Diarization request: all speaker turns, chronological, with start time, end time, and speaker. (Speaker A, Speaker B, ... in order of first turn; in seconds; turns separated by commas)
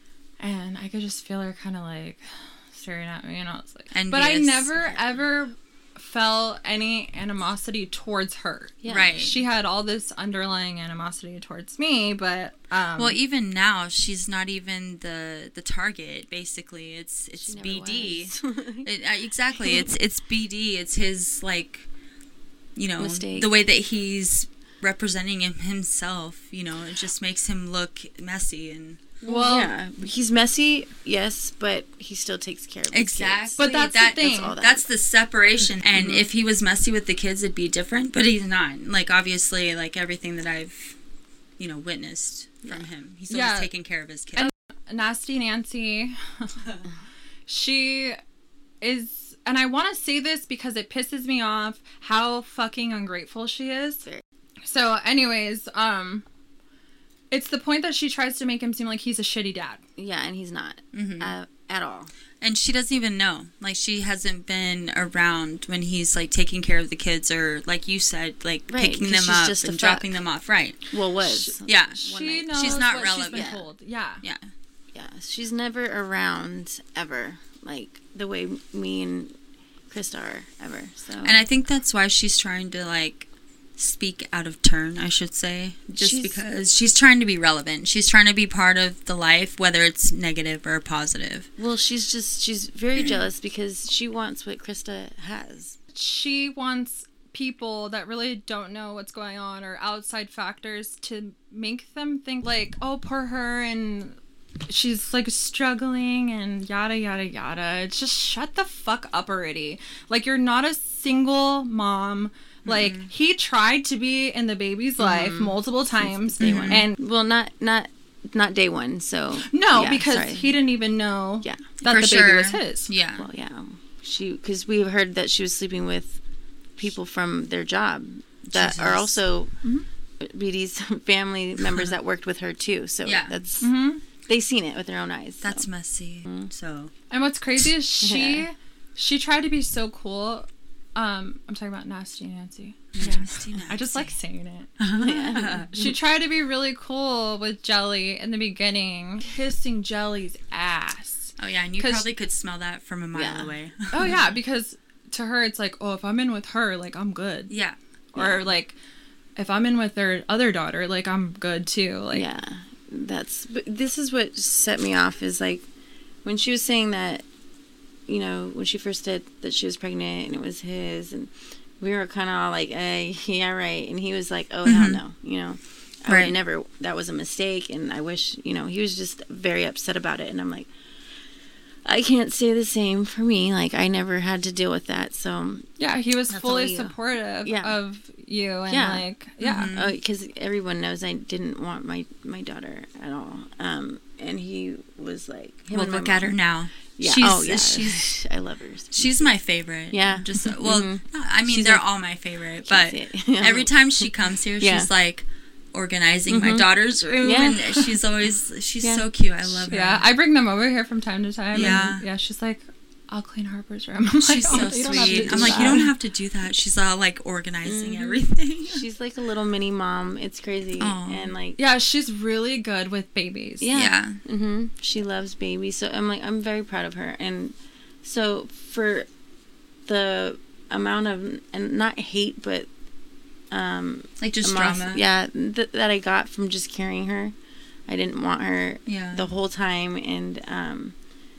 Speaker A: 0.4-13.2, Speaker B: 3.9-4.7, Speaker C: 4.8-5.1, Speaker C: 8.8-9.2, Speaker B: 8.9-9.4, Speaker B: 13.0-21.9, Speaker C: 17.4-18.9, Speaker C: 19.6-19.9, Speaker B: 22.8-29.2, Speaker C: 23.0-23.5, Speaker A: 29.2-29.7, Speaker C: 29.2-34.9, Speaker B: 32.9-41.0, Speaker A: 33.6-34.6, Speaker B: 41.6-44.5, Speaker A: 43.3-43.7, Speaker A: 44.4-46.5, Speaker A: 47.5-48.2, Speaker A: 48.8-54.0, Speaker A: 54.6-56.2, Speaker A: 57.3-59.8, Speaker C: 60.0-62.1, Speaker B: 60.9-61.4, Speaker B: 62.4-73.5, Speaker C: 68.7-70.2, Speaker C: 70.9-73.7, Speaker A: 72.0-74.2, Speaker C: 74.9-79.3, Speaker C: 79.9-81.4, Speaker B: 81.2-91.5, Speaker C: 86.0-86.4, Speaker C: 91.6-95.8, Speaker B: 93.0-93.2, Speaker A: 95.9-104.2, Speaker A: 104.7-117.0, Speaker B: 112.7-113.1, Speaker C: 115.0-120.6, Speaker B: 116.4-116.8, Speaker A: 119.4-122.9, Speaker C: 121.4-121.7, Speaker B: 121.8-123.3, Speaker C: 123.2-126.2, Speaker C: 126.8-129.5, Speaker B: 128.5-129.2, Speaker C: 130.2-133.7, Speaker B: 131.6-131.9, Speaker B: 133.0-133.4, Speaker A: 133.6-134.0, Speaker C: 134.3-135.7, Speaker B: 135.4-136.9, Speaker A: 137.1-144.7, Speaker C: 138.0-138.4, Speaker B: 142.9-144.2, Speaker B: 144.8-145.8, Speaker C: 145.0-145.8, Speaker A: 145.7-152.1, Speaker B: 151.4-154.2, Speaker C: 153.2-153.5, Speaker A: 153.9-157.5, Speaker B: 157.5-157.8, Speaker A: 158.1-158.8, Speaker C: 158.2-158.4, Speaker A: 159.4-162.2, Speaker C: 162.1-165.7, Speaker C: 166.2-167.2, Speaker C: 168.1-180.7, Speaker B: 174.7-175.0, Speaker B: 176.1-176.3, Speaker C: 181.8-185.7, Speaker A: 185.8-189.7, Speaker C: 186.3-187.8, Speaker C: 188.7-189.1, Speaker B: 189.4-190.0, Speaker C: 189.7-196.4, Speaker B: 195.7-198.0, Speaker C: 197.0-199.4, Speaker B: 198.9-210.1, Speaker C: 199.9-201.9, Speaker C: 202.6-204.1, Speaker C: 204.6-204.9, Speaker C: 206.3-206.7, Speaker C: 207.2-208.0, Speaker A: 209.7-215.9, Speaker B: 211.5-212.1, Speaker C: 211.6-211.8, Speaker B: 214.2-218.9, Speaker C: 214.5-215.9, Speaker C: 217.6-221.6, Speaker B: 220.8-221.3, Speaker A: 221.6-223.7, Speaker C: 223.6-229.1, Speaker B: 223.7-224.2, Speaker C: 229.9-232.7, Speaker C: 233.5-237.3, Speaker B: 234.2-235.0, Speaker C: 237.9-240.9, Speaker B: 238.9-239.3